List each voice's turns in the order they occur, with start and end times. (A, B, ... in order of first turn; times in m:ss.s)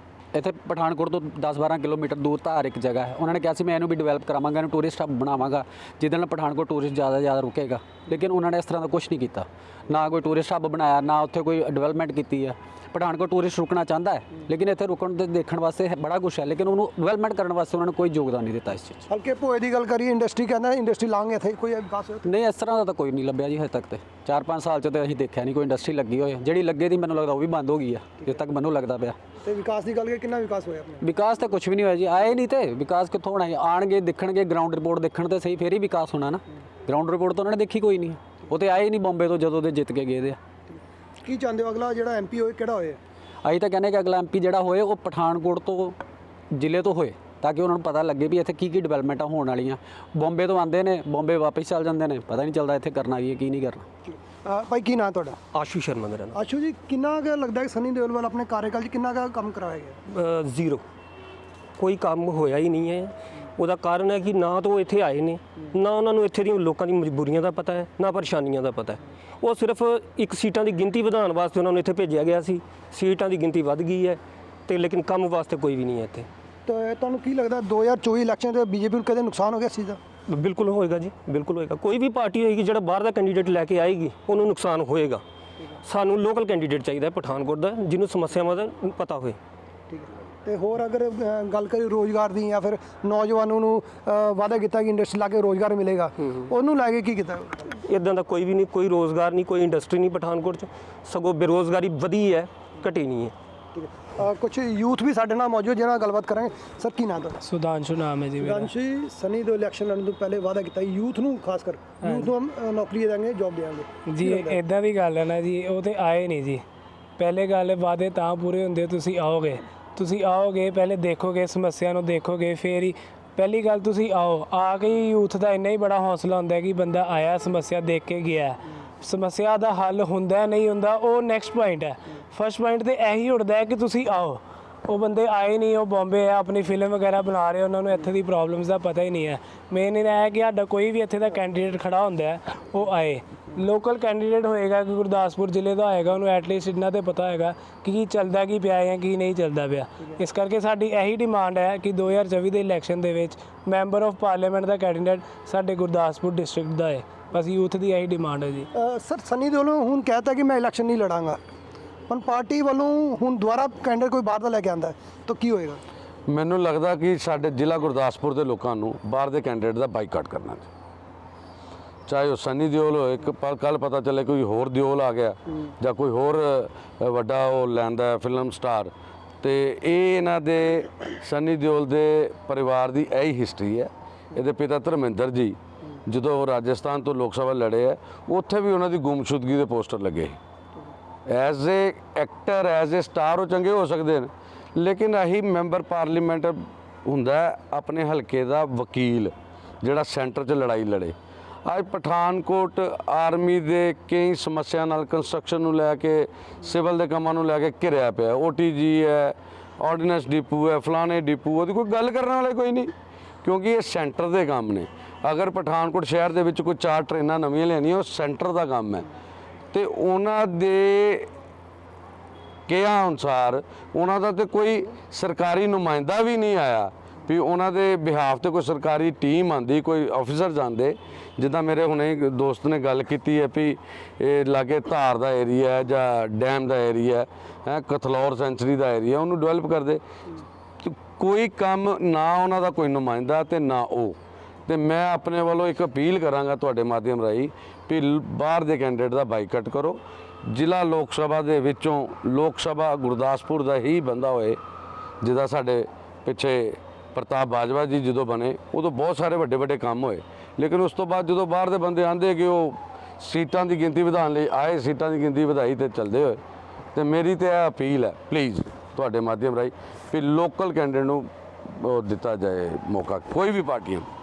0:00.3-0:19.0 A
0:19.1-0:22.3 B
0:22.2-0:29.2 A
0:29.4-0:31.1 B
0:31.0-0:40.4 A
0:41.2-0:43.0 B
0:43.4-0:46.0 A
0:46.5-0:53.8 A
0:54.4-0:55.4 B
0:55.5-0:56.4 C
0:56.3-1:00.0 B
1:00.1-1:00.8 C
1:01.8-1:16.3 C
1:16.6-1:20.0 B
1:20.3-1:25.2 C
1:25.8-1:29.4 C
1:29.9-1:37.7 B
1:37.8-1:43.3 C
1:43.7-1:47.4 B
1:47.4-1:48.7 D
1:48.4-1:54.6 B
1:52.0-1:52.3 D
1:54.1-1:56.6 D
1:57.2-2:38.7 D
2:38.8-2:41.4 B
2:42.1-2:45.8 B
2:46.3-2:50.7 E
2:52.1-3:10.4 E
3:11.3-3:32.9 E
3:33.4-3:39.0 E
3:39.7-3:41.3 E
3:42.7-4:00.0 E
4:00.8-4:04.2 E
4:04.7-4:14.6 E
4:15.2-4:26.4 E
4:26.9-4:34.1 E